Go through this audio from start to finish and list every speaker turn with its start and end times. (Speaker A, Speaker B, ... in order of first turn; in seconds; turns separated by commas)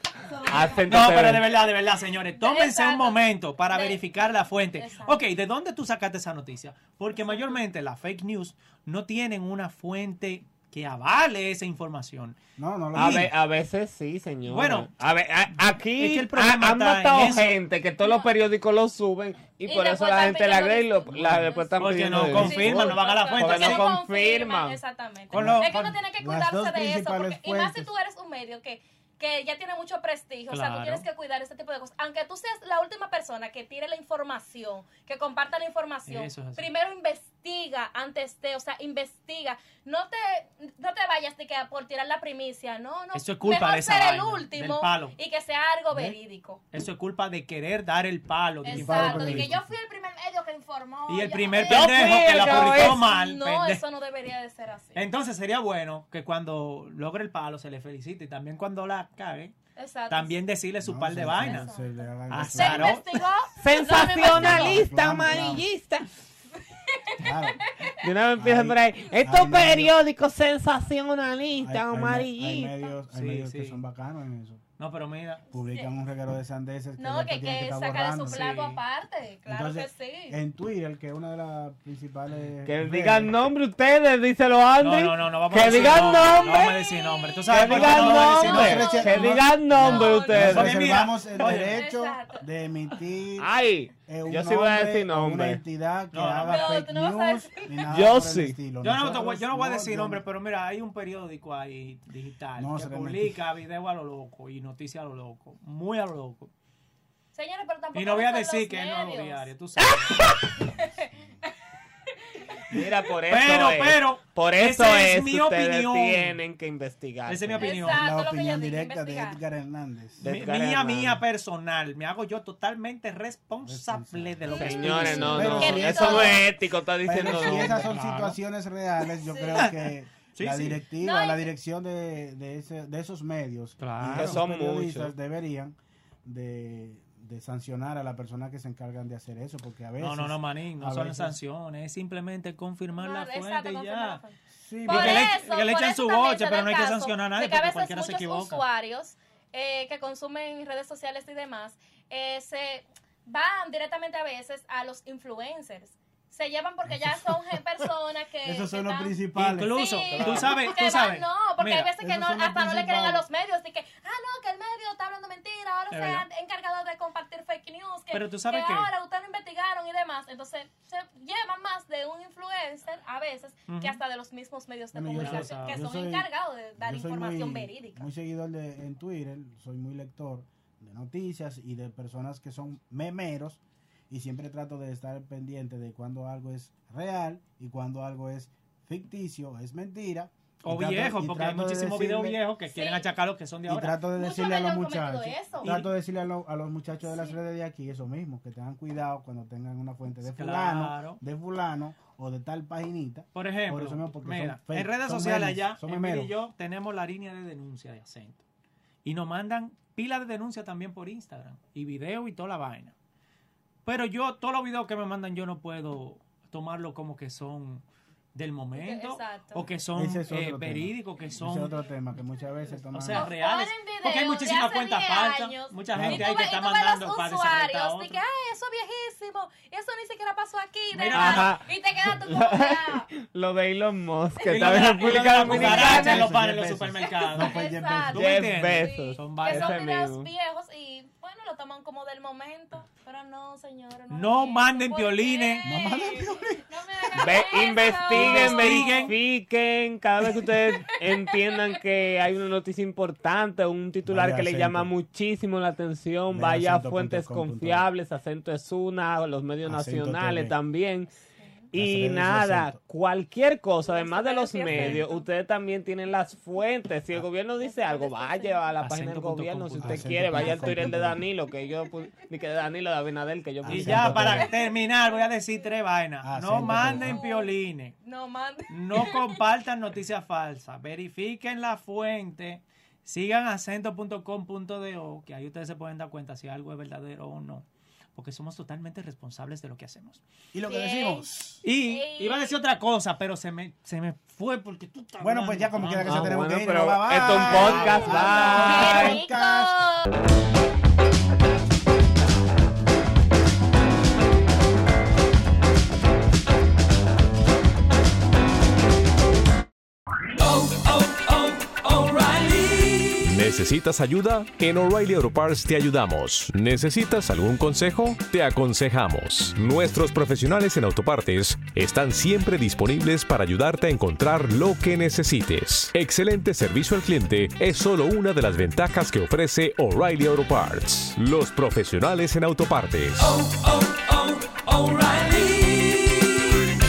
Speaker A: 0.5-1.5, Speaker B: 0.9-12.4, Speaker C: 2.4-4.1, Speaker C: 4.7-5.2, Speaker C: 7.2-7.5, Speaker D: 12.6-13.3, Speaker A: 12.9-24.8, Speaker B: 12.9-13.3, Speaker B: 14.5-14.9, Speaker B: 15.9-17.6, Speaker C: 18.0-18.3, Speaker C: 19.6-46.6, Speaker B: 21.8-23.9, Speaker B: 25.3-25.7, Speaker D: 25.3-27.9, Speaker B: 30.5-31.1, Speaker B: 36.1-36.7, Speaker B: 43.1-45.2, Speaker B: 46.7-49.6, Speaker C: 48.6-55.0, Speaker D: 48.7-49.7, Speaker B: 51.1-53.8, Speaker A: 51.6-53.0, Speaker B: 54.9-59.5, Speaker C: 59.8-60.4, Speaker B: 60.1-61.7, Speaker D: 60.8-63.1, Speaker C: 61.4-65.3, Speaker B: 62.3-63.2, Speaker A: 63.6-66.1, Speaker D: 64.2-65.7, Speaker D: 67.2-67.6, Speaker A: 68.0-72.8, Speaker D: 68.4-70.0, Speaker D: 71.6-74.6, Speaker B: 73.1-73.8, Speaker B: 74.8-75.4, Speaker D: 75.5-78.8, Speaker C: 75.5-75.9, Speaker C: 77.0-80.4, Speaker D: 79.5-83.5, Speaker A: 82.7-86.7, Speaker B: 84.8-89.3, Speaker C: 86.0-90.8, Speaker A: 87.5-90.7, Speaker D: 88.5-93.5, Speaker B: 90.3-91.8, Speaker C: 91.4-92.5, Speaker A: 93.4-95.6, Speaker D: 94.1-100.2, Speaker B: 96.1-96.7, Speaker C: 96.5-97.8, Speaker A: 97.9-98.6, Speaker B: 98.8-106.5, Speaker D: 102.6-103.4, Speaker C: 107.3-109.5, Speaker B: 107.9-110.3, Speaker C: 110.5-111.1, Speaker A: 112.7-117.7, Speaker B: 113.3-116.4, Speaker B: 117.2-118.0, Speaker C: 117.6-119.4, Speaker D: 117.8-120.3, Speaker B: 120.2-125.9, Speaker A: 120.2-121.2, Speaker D: 123.6-126.5, Speaker C: 124.5-126.5, Speaker A: 124.5-128.0, Speaker D: 127.0-141.4, Speaker B: 127.2-128.4, Speaker C: 129.2-129.7, Speaker B: 129.6-130.8, Speaker C: 131.0-131.5, Speaker B: 133.8-134.4, Speaker A: 134.1-135.1, Speaker B: 140.0-144.2, Speaker C: 143.0-159.2, Speaker D: 144.6-145.3, Speaker B: 144.9-148.6, Speaker D: 156.8-157.9, Speaker D: 158.4-160.6, Speaker B: 159.3-161.9, Speaker C: 159.7-178.1, Speaker D: 162.0-163.2, Speaker B: 165.9-166.3, Speaker B: 168.1-168.9, Speaker B: 173.7-174.0, Speaker D: 174.9-192.4, Speaker B: 175.2-175.8, Speaker B: 190.6-194.1, Speaker C: 192.7-193.1, Speaker D: 193.7-206.4, Speaker C: 194.2-195.7, Speaker B: 195.6-195.9, Speaker C: 197.0-197.4, Speaker B: 200.3-201.2, Speaker B: 203.3-208.4, Speaker B: 209.0-212.9, Speaker B: 213.9-221.8, Speaker C: 218.7-219.7, Speaker D: 219.9-223.3, Speaker B: 222.9-228.2, Speaker C: 223.1-233.1, Speaker D: 225.9-226.3, Speaker B: 230.9-231.5, Speaker A: 231.1-236.3, Speaker C: 234.4-236.2, Speaker B: 234.5-239.8, Speaker D: 235.4-238.2, Speaker C: 237.0-249.1, Speaker A: 238.1-240.3, Speaker B: 244.1-245.7, Speaker D: 245.6-247.5, Speaker A: 247.1-261.1, Speaker B: 248.1-249.2, Speaker C: 250.6-251.5, Speaker D: 254.1-254.9, Speaker D: 256.3-257.9, Speaker D: 259.6-260.6, Speaker A: 261.7-274.5, Speaker D: 261.7-262.8, Speaker C: 263.9-265.3, Speaker C: 267.6-268.6, Speaker B: 268.8-270.7, Speaker D: 269.8-271.2, Speaker D: 273.6-274.5, Speaker B: 273.7-278.0, Speaker C: 274.5-274.8, Speaker D: 276.2-277.2, Speaker C: 276.6-279.3, Speaker B: 278.7-290.2, Speaker D: 290.5-291.6, Speaker C: 290.6-291.3, Speaker B: 291.6-296.4, Speaker C: 291.8-292.6, Speaker D: 295.2-299.9, Speaker A: 296.0-299.2, Speaker B: 297.2-299.1, Speaker C: 298.1-300.1, Speaker E: 313.2-333.4